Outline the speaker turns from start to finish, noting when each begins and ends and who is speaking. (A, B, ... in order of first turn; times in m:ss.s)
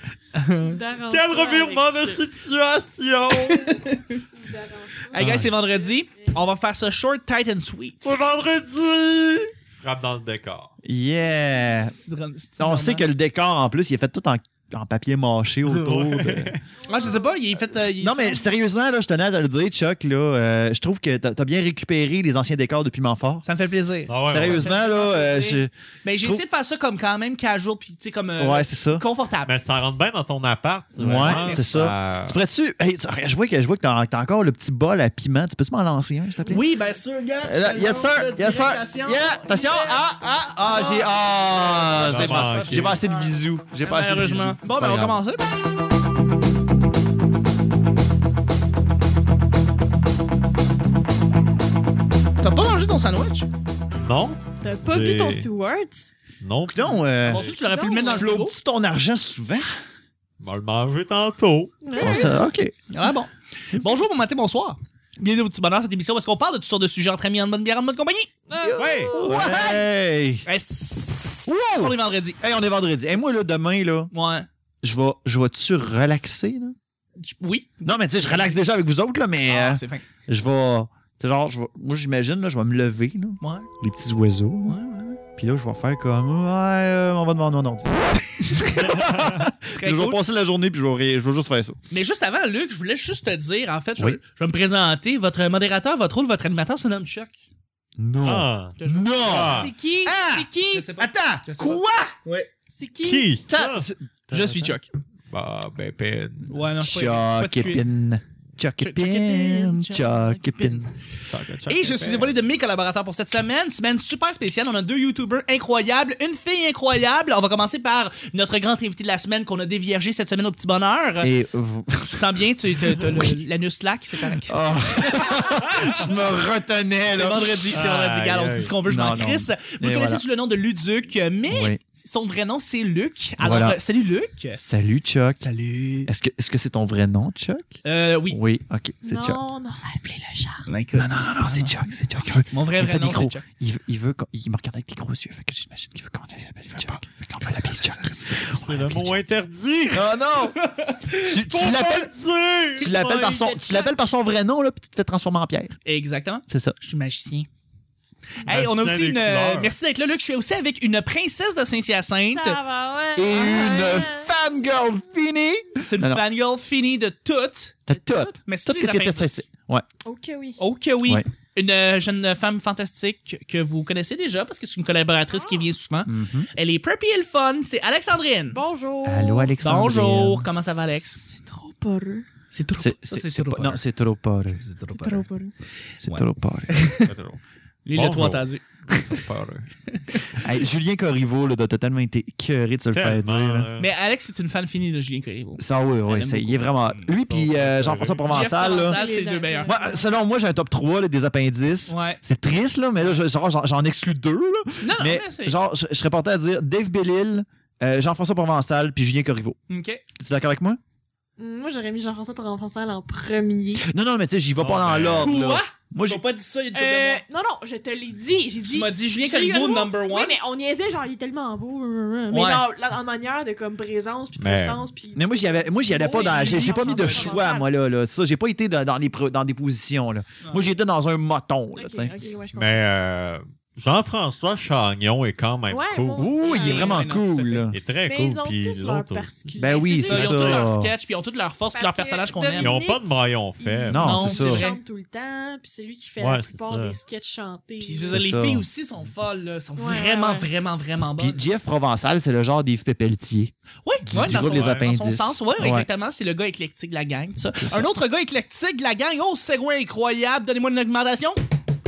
0:00.4-0:00.8 A
0:00.5-0:02.2 B
0:01.1-0:03.8 C
0:03.3-0:04.2 A
0:04.4-0:06.3 B
0:05.1-0:08.2 A
0:05.1-0:05.5 D
0:08.0-0:10.7 C
0:10.8-0:12.0 D
0:11.9-0:13.0 A
0:12.6-0:16.5 D
0:15.6-0:16.6 C
0:16.8-0:17.4 B
0:16.9-0:18.4 A
0:17.8-0:23.4 D
0:23.4-0:25.2 A
0:24.1-0:24.7 C
0:24.2-0:26.4 D
0:24.6-0:25.6 B
0:26.0-0:29.5 A
0:28.4-0:29.0 D
0:29.4-0:32.4 C
0:31.0-0:36.6 D
0:31.2-0:32.2 A
0:36.4-0:45.5 A
0:37.4-0:45.2 D
0:41.9-0:43.0 C
0:52.4-0:53.5 A
0:54.0-0:55.5 C
0:54.6-0:56.1 B
0:56.4-0:57.6 C
0:56.7-0:57.4 D
0:57.2-0:58.5 A
0:57.6-0:58.3 B
0:58.0-0:59.7 D
1:00.4-1:01.8 C
1:01.8-1:02.4 B
1:02.0-1:02.7 D
1:02.0-1:02.3 A
1:02.9-1:09.8 A
1:08.5-1:08.8 B
1:08.6-1:10.4 D
1:08.8-1:09.1 C
1:10.4-1:12.4 A
1:11.5-1:14.1 D
1:14.1-1:14.5 A
1:14.8-1:16.7 D
1:17.2-1:18.6 A
1:17.8-1:24.8 D
1:19.5-1:20.0 A
1:23.4-1:23.7 A
1:24.7-1:25.2 A
1:25.4-1:31.8 D
1:28.8-1:29.5 C
1:29.7-1:30.2 A
1:31.9-1:37.4 A
1:38.0-1:42.1 D
1:38.2-1:39.7 C
1:38.8-1:39.4 A
1:39.5-1:40.9 B
1:40.7-1:42.5 A
1:42.7-1:43.3 B
1:43.0-1:43.9 C
1:43.5-1:44.8 D
1:44.3-1:44.9 A
1:45.3-1:46.6 C
1:46.5-1:47.8 A
1:46.8-1:50.9 D
1:48.8-1:50.9 A
1:51.2-1:52.4 C
1:51.6-2:01.3 A
2:01.2-2:02.4 D
2:02.0-2:06.1 A
2:04.5-2:07.6 D
2:07.2-2:14.6 A
2:07.7-2:08.8 C
2:08.8-2:10.2 D
2:11.5-2:11.8 D
2:13.4-2:13.8 D
2:14.6-2:15.4 D
2:15.4-2:16.1 A
2:16.0-2:19.4 D
2:17.8-2:18.4 A
2:19.0-2:20.7 B
2:20.7-2:21.7 A
2:21.0-2:29.2 D
2:22.4-2:23.4 A
2:26.7-2:28.5 A
2:28.4-2:30.2 C
2:29.9-2:30.6 D
2:30.4-2:31.2 A
2:31.2-2:32.1 D
2:31.2-2:32.9 C
2:32.8-2:35.8 D
2:32.8-2:34.0 B
2:35.8-2:37.5 A
2:36.5-2:36.8 D
2:38.4-2:42.6 A
2:38.4-2:39.7 C
2:42.3-2:44.6 B
2:43.2-2:46.2 D
2:43.3-2:43.8 A
2:45.8-2:47.8 A
2:47.9-2:49.8 D
2:48.4-2:49.4 A
2:50.0-2:50.6 B
2:50.6-2:58.6 A
2:56.0-2:56.5 D
2:58.5-2:59.5 B
2:59.0-3:00.8 D
2:59.6-3:01.2 A
3:01.1-3:02.2 B
3:02.5-3:03.8 A
3:02.8-3:04.6 D
3:04.6-3:05.2 A
3:05.0-3:05.5 B
3:06.0-3:06.9 D
3:06.0-3:07.1 A
3:06.9-3:07.4 C
3:07.8-3:08.6 A
3:07.9-3:09.7 C
3:09.9-3:10.4 A
3:10.3-3:13.7 D
3:12.9-3:13.9 C
3:13.8-3:17.0 A
3:15.6-3:19.0 D
3:17.0-3:18.5 C
3:18.3-3:19.8 A
3:18.6-3:20.0 B
3:19.6-3:29.6 D
3:21.9-3:22.2 A
3:24.8-3:25.6 A
3:29.7-3:30.0 A
3:30.2-3:30.8 D
3:31.4-3:33.8 B
3:33.8-3:36.2 D
3:34.6-3:35.3 C
3:35.2-3:37.2 A
3:36.7-3:47.7 B
3:38.6-3:40.4 A
3:42.3-3:42.6 A
3:44.4-3:44.8 C
3:45.1-3:52.1 D
3:46.0-3:47.3 A
3:51.8-3:52.8 B
3:52.5-3:56.3 C
3:55.7-3:57.0 B
3:56.2-3:57.8 D
3:56.4-3:57.7 A
3:57.7-3:59.3 C
3:58.0-4:00.4 B
3:59.6-4:00.9 D
3:59.9-4:02.8 A
4:00.1-4:00.6 C
4:01.7-4:03.0 B
4:02.6-4:04.3 C
4:03.6-4:08.2 B
4:03.9-4:04.6 D
4:04.0-4:04.8 A
4:06.2-4:07.0 C
4:07.8-4:11.4 A
4:08.1-4:08.6 D
4:09.8-4:10.5 B
4:11.2-4:13.5 D
4:13.8-4:21.4 A
4:14.1-4:15.9 D
4:14.1-4:14.8 C
4:17.6-4:17.9 D